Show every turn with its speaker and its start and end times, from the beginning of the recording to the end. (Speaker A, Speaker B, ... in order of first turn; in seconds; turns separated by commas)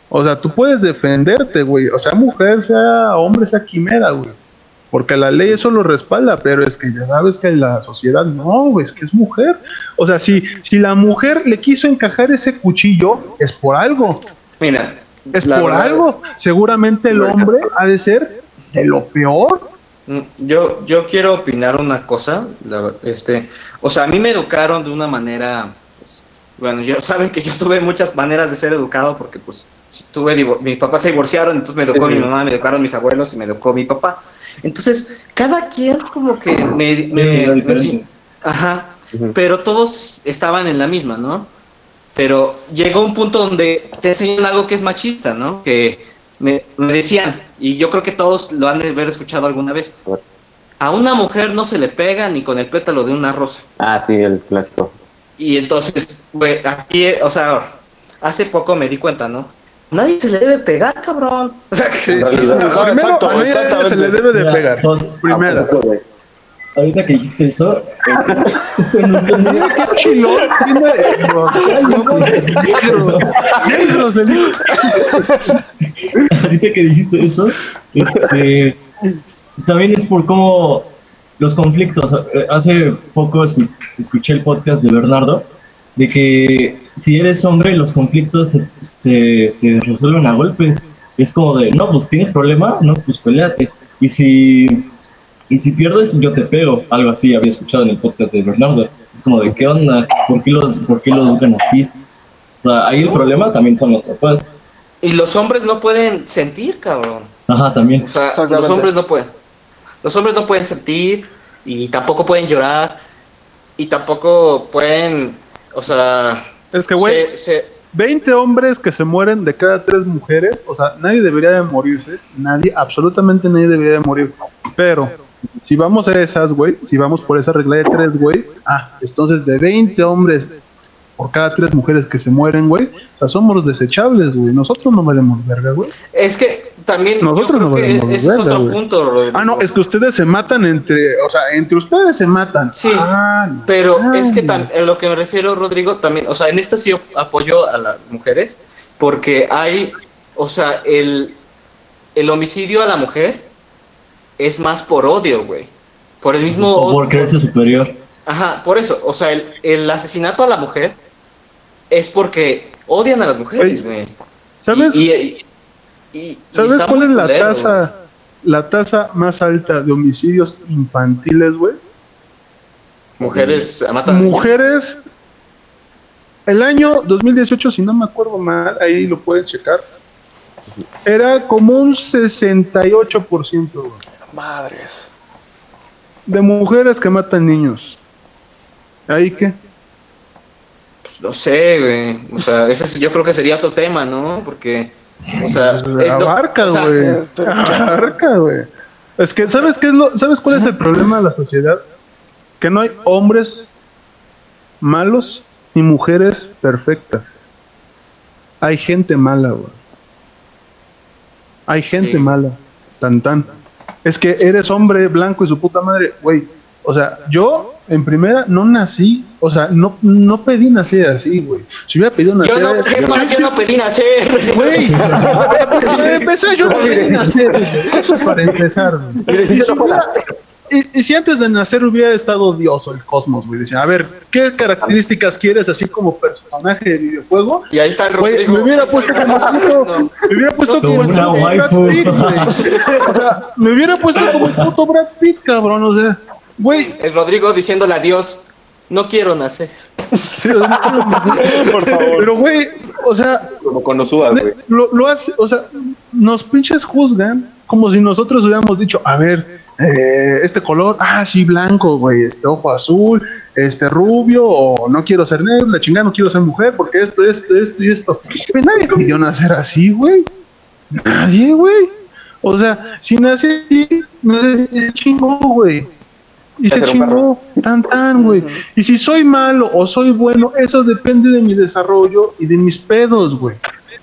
Speaker A: 0.1-4.4, Speaker A: 4.9-14.2, Speaker B: 14.6-16.1, Speaker A: 15.3-19.7, Speaker C: 17.1-17.7, Speaker B: 20.1-41.5, Speaker D: 31.9-32.3, Speaker D: 37.1-38.1, Speaker B: 42.2-50.0, Speaker B: 50.8-53.6, Speaker C: 53.8-55.0, Speaker B: 55.4-62.8, Speaker C: 62.1-63.0, Speaker A: 62.4-65.7, Speaker E: 62.5-64.2, Speaker D: 64.3-65.2, Speaker C: 65.3-66.0, Speaker D: 66.8-70.0, Speaker C: 68.2-68.5, Speaker A: 69.4-75.2, Speaker D: 71.5-73.9, Speaker D: 76.3-78.8, Speaker D: 79.6-94.9, Speaker D: 95.5-101.9, Speaker D: 102.6-104.5, Speaker B: 105.0-107.3, Speaker D: 107.5-108.1, Speaker B: 108.0-109.3, Speaker E: 108.3-108.9, Speaker B: 110.0-113.0, Speaker B: 113.8-117.8, Speaker A: 116.7-117.3, Speaker A: 117.9-130.6, Speaker A: 131.2-135.9, Speaker B: 136.1-139.7, Speaker A: 137.2-138.8, Speaker A: 139.3-144.7, Speaker B: 142.8-143.1, Speaker B: 143.7-151.4, Speaker B: 152.2-153.5, Speaker B: 154.4-157.3, Speaker D: 156.5-157.9, Speaker B: 158.3-161.0, Speaker B: 161.9-164.1, Speaker A: 164.6-165.1, Speaker B: 164.7-165.4, Speaker B: 166.1-167.8, Speaker A: 166.6-171.8, Speaker B: 173.2-174.5, Speaker C: 173.2-173.7, Speaker A: 174.1-175.0, Speaker A: 176.5-179.8, Speaker A: 181.1-184.0, Speaker E: 184.3-185.1, Speaker A: 186.3-188.0, Speaker A: 189.1-189.6, Speaker B: 191.1-196.9, Speaker A: 195.6-201.8, Speaker E: 197.0-198.2, Speaker A: 202.6-203.7, Speaker A: 204.8-207.4, Speaker A: 208.6-209.8, Speaker A: 211.7-213.5, Speaker B: 212.0-212.4, Speaker A: 214.1-223.5, Speaker B: 222.4-226.3, Speaker C: 222.9-223.3, Speaker A: 224.5-230.1, Speaker D: 224.9-225.3, Speaker C: 225.6-226.1, Speaker C: 226.6-227.8, Speaker C: 229.2-230.3, Speaker A: 230.7-246.9, Speaker B: 237.7-243.1, Speaker D: 240.8-242.6, Speaker D: 244.3-244.7, Speaker B: 246.7-249.7, Speaker A: 250.4-251.6, Speaker E: 251.4-252.3, Speaker A: 252.1-253.5, Speaker C: 253.6-254.6, Speaker A: 254.3-270.3, Speaker A: 270.9-275.9, Speaker A: 276.6-283.6, Speaker C: 276.7-277.3, Speaker E: 278.2-278.6